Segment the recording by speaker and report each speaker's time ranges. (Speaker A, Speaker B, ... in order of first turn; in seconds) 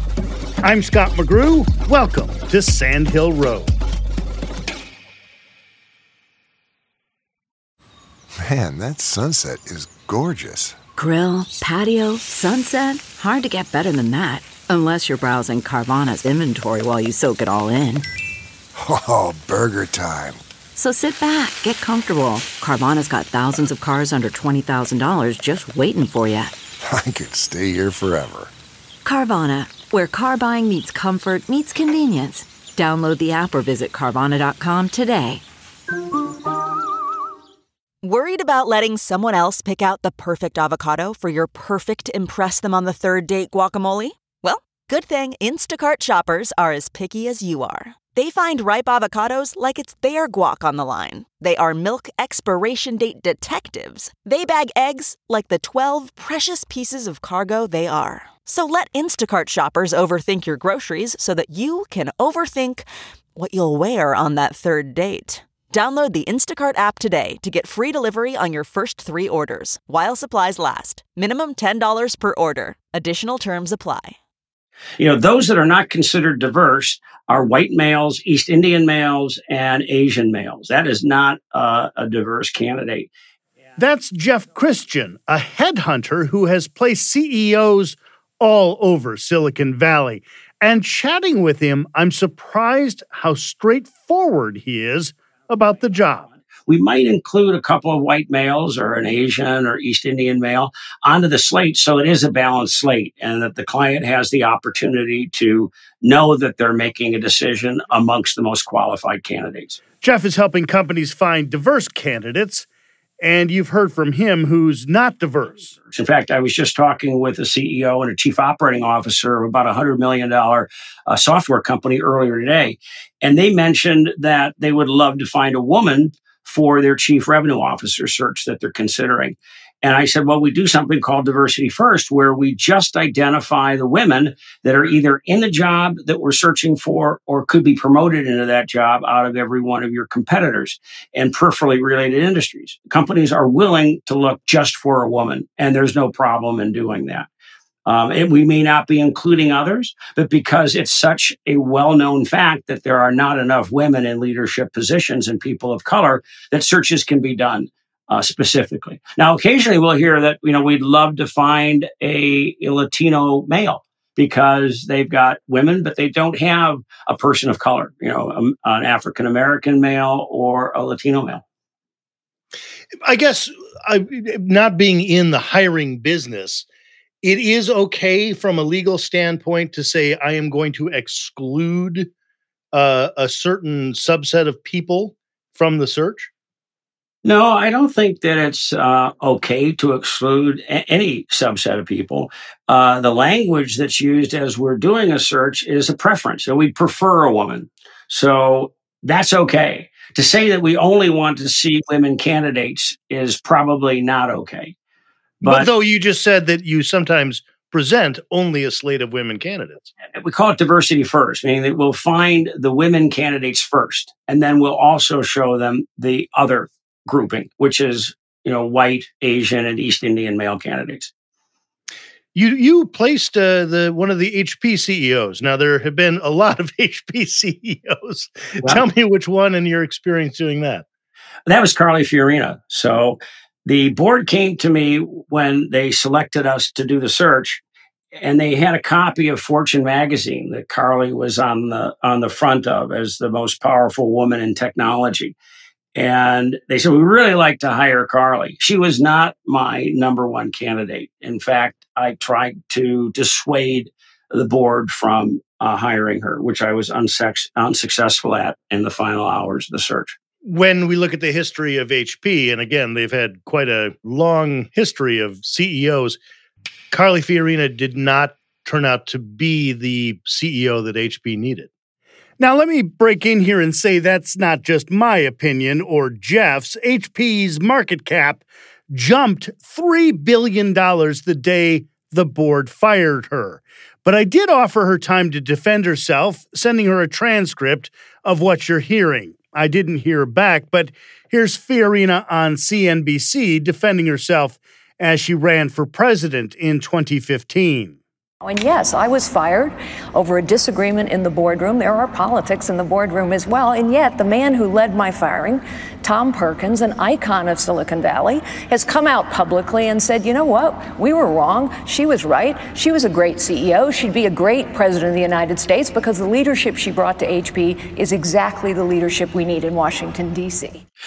Speaker A: 0.6-3.7, 83.8-96.3, 110.0-112.7, 113.2-115.7, 173.1-176.7, 177.2-182.1, 182.7-186.3, 205.4-209.9, 222.3-230.8, 260.5-266.2, 266.9-271.7, 272.4-297.9
Speaker B: 8.4-10.8, 18.8-20.4, 26.8-28.5
Speaker C: 11.0-18.1, 20.7-26.5, 29.0-35.4
Speaker D: 38.0-74.1
Speaker E: 75.0-83.1, 96.7-109.8, 115.8-147.3, 147.8-171.4, 187.2-204.7, 205.4-205.7, 210.2-221.1, 231.5-237.6, 238.2-245.3, 246.0-260.1
Speaker F: 298.4-320.8